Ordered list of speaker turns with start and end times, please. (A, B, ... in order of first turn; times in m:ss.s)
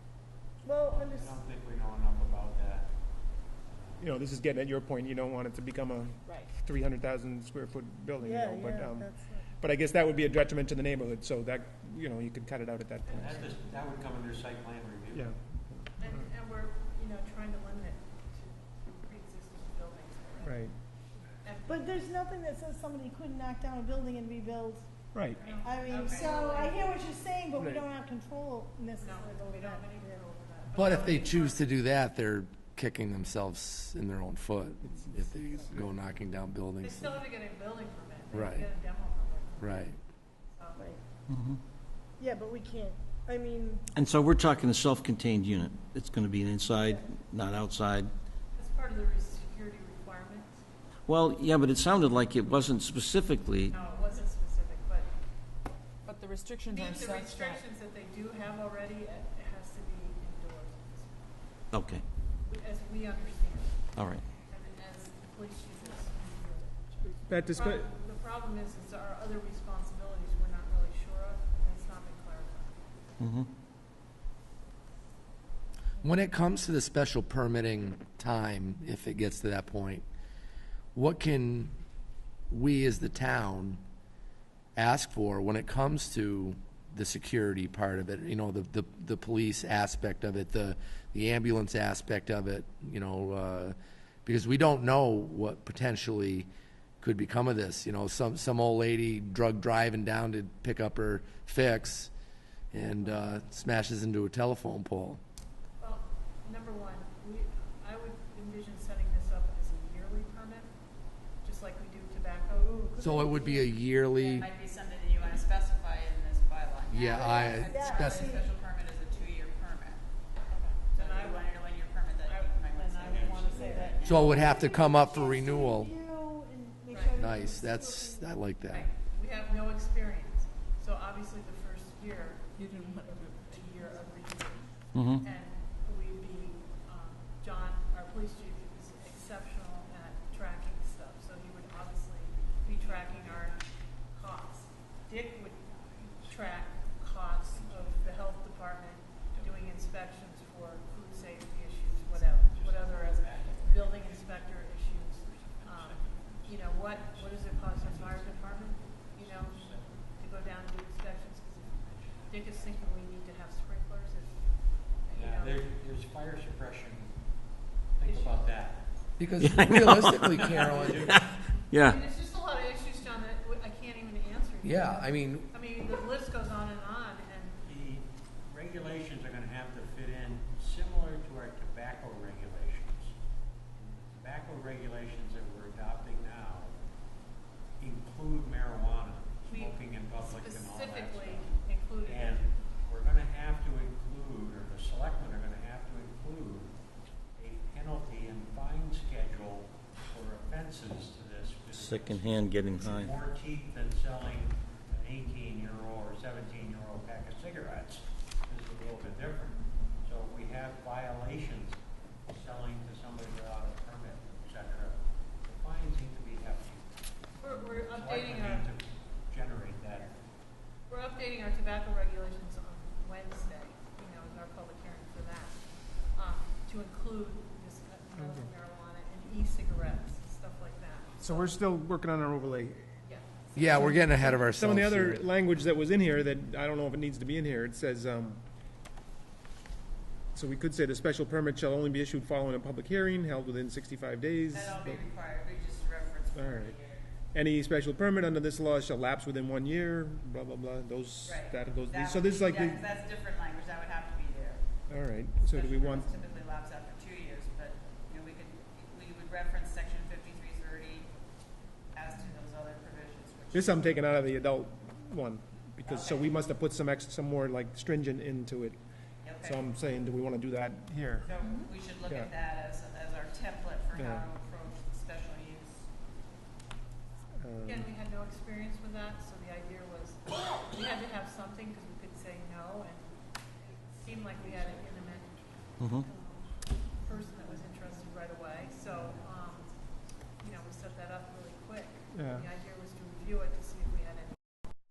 0:00.6-0:01.4 A
0:00.9-0:02.9 B
0:03.7-0:04.1 B
0:04.0-0:13.5 C
0:08.2-0:09.4 A
0:13.1-0:13.7 D
0:13.2-0:15.3 B
0:15.1-0:16.2 C
0:16.0-0:20.7 D
0:20.4-0:20.7 C
0:21.4-0:22.2 D
0:21.7-0:24.9 A
0:25.1-0:25.4 C
0:25.3-0:26.8 D
0:25.3-0:26.7 E
0:25.6-0:30.2 A
0:27.6-0:27.8 C
0:29.0-0:31.6 D
0:30.7-0:37.2 F
0:35.1-0:35.8 C
0:36.8-0:39.9 D
0:38.3-0:38.7 F
0:39.6-0:40.0 F
0:40.5-0:40.8 D
0:40.8-0:41.0 A
0:41.3-0:41.6 G
0:42.2-0:43.8 A
0:43.9-0:48.1 G
0:48.5-0:50.6 D
0:51.1-0:53.7 G
0:53.6-0:55.1 D
0:56.0-0:57.6 H
0:56.7-1:01.4 D
1:01.7-1:02.0 G
1:02.5-1:12.8 D
1:04.0-1:04.2 G
1:07.3-1:07.9 C
1:13.2-1:13.5 G
1:16.0-1:20.0 F
1:20.9-1:21.7 F
1:22.5-1:23.8 F
1:24.8-1:36.5 F
1:37.0-1:42.1 F
1:42.7-1:45.2 F
1:45.8-1:50.7 D
1:51.4-1:53.2 D
1:52.6-1:53.7 A
1:53.0-1:54.5 F
1:54.3-2:00.0 E
1:56.9-1:58.4 F
1:57.1-1:58.5 A
2:00.5-2:01.5 D
2:00.9-2:04.6 E
2:02.2-2:04.0 D
2:03.1-2:03.5 B
2:03.6-2:08.3 A
2:04.0-2:05.9 F
2:06.9-2:07.3 D
2:07.2-2:08.8 F
2:09.0-2:25.6 D
2:12.6-2:14.1 H
2:14.9-2:15.2 G
2:22.5-2:23.6 B
2:25.6-2:28.3 B
2:26.2-2:44.4 D
2:29.2-2:29.8 B
2:32.0-2:40.1 B
2:41.6-2:43.0 B
2:45.0-2:45.6 D
2:45.1-2:47.2 B
2:48.0-2:48.8 B
2:48.0-2:48.6 D
2:49.2-2:51.2 F
2:49.4-2:50.2 G
2:49.8-2:51.1 B
2:50.9-2:52.0 G
2:51.8-2:57.6 D
2:54.6-2:55.5 F
2:57.6-3:03.1 B
3:03.8-3:06.7 B
3:07.8-3:16.7 B
3:09.5-3:12.4 D
3:17.4-3:36.9 B
3:21.7-3:23.1 G
3:37.4-3:38.7 D
3:37.5-3:40.2 B
3:40.9-3:45.6 D
3:46.1-3:51.5 D
3:48.2-3:48.5 C
3:51.2-3:52.9 C
3:53.0-3:54.0 D
3:53.6-3:55.2 F
3:53.8-3:58.4 C
4:00.3-4:05.0 C
4:04.5-4:07.0 E
4:06.3-4:06.8 C
4:07.3-4:12.8 C
4:11.2-4:14.6 E
4:14.9-4:16.1 C
4:15.5-4:21.1 E
4:21.9-4:23.9 E
4:23.5-4:28.8 C
4:25.8-4:26.3 E
4:29.2-4:29.6 E
4:29.4-4:31.3 C
4:31.2-4:35.9 E
4:33.9-4:34.2 C
4:37.4-4:37.9 C
4:37.6-4:46.3 D
4:44.6-4:44.8 B
4:45.8-4:46.1 G
4:46.9-4:49.7 D
4:50.4-4:54.5 D
4:52.1-4:52.4 C